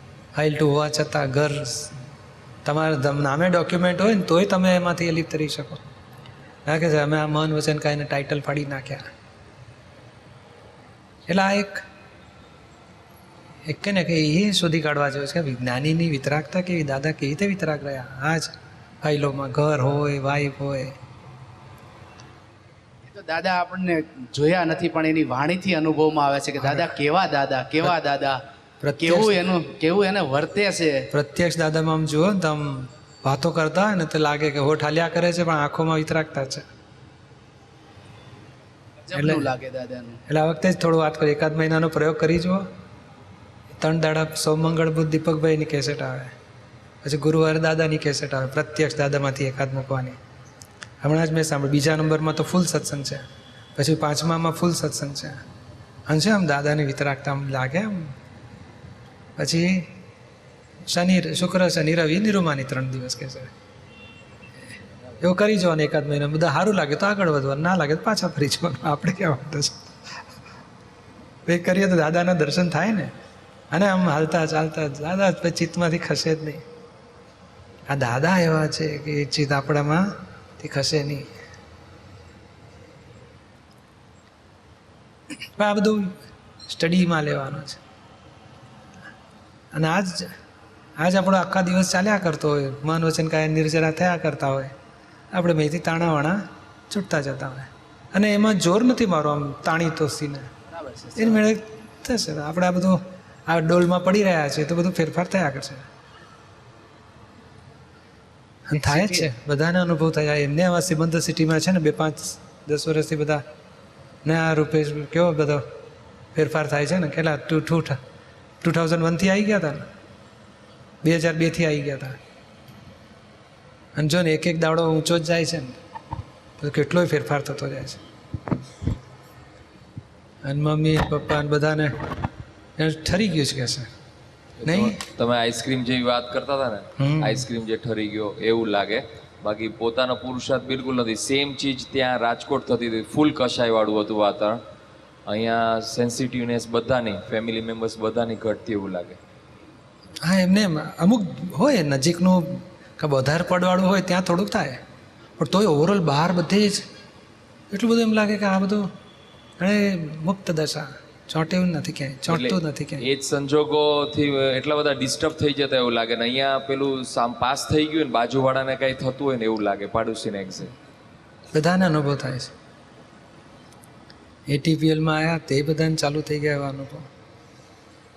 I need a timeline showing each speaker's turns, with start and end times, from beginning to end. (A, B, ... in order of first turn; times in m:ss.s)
0:00.4-0:02.0 A
0:02.6-0:05.8 A
0:06.6-0:09.0 A
0:11.3-0:11.8 A
0:13.7-0:21.0 A
0:23.0-0:28.4 B
0:26.6-0:26.9 A
0:28.8-0:29.4 A
0:29.0-0:31.0 B
0:31.1-0:36.6 A
0:39.0-0:40.2 B
0:39.1-0:39.5 A
0:40.3-0:42.6 A
0:43.8-0:46.3 A
0:47.0-0:50.2 A
0:51.0-0:53.2 A
0:53.8-0:55.4 A
0:56.1-0:58.1 A
0:59.4-0:59.9 A
1:00.9-1:03.5 A
1:05.2-1:09.8 A
1:11.5-1:13.1 A
1:13.7-1:16.6 A
1:17.9-1:20.0 A
1:20.6-1:21.3 A
1:25.6-1:27.8 A
1:29.7-1:30.3 A
1:31.0-1:34.7 A
1:35.3-1:40.5 A
1:40.7-1:41.4 B
1:41.2-1:45.8 A
1:48.7-1:53.4 A
1:48.8-1:49.3 B
1:54.2-1:55.6 A
1:56.3-1:58.0 A
1:58.6-1:59.9 A
2:01.0-2:02.2 A
2:04.0-2:05.7 A
2:06.6-2:08.0 A
2:10.4-2:11.9 A
2:12.8-2:13.9 A
2:14.6-2:24.6 C
2:14.6-2:15.0 A
2:17.0-2:17.4 A
2:25.3-2:29.2 C
2:30.2-2:34.8 A
2:35.4-2:36.8 A
2:37.7-2:38.9 A
2:39.6-2:43.1 A
2:42.3-2:50.7 C
2:51.5-2:52.5 A
2:54.5-2:57.0 A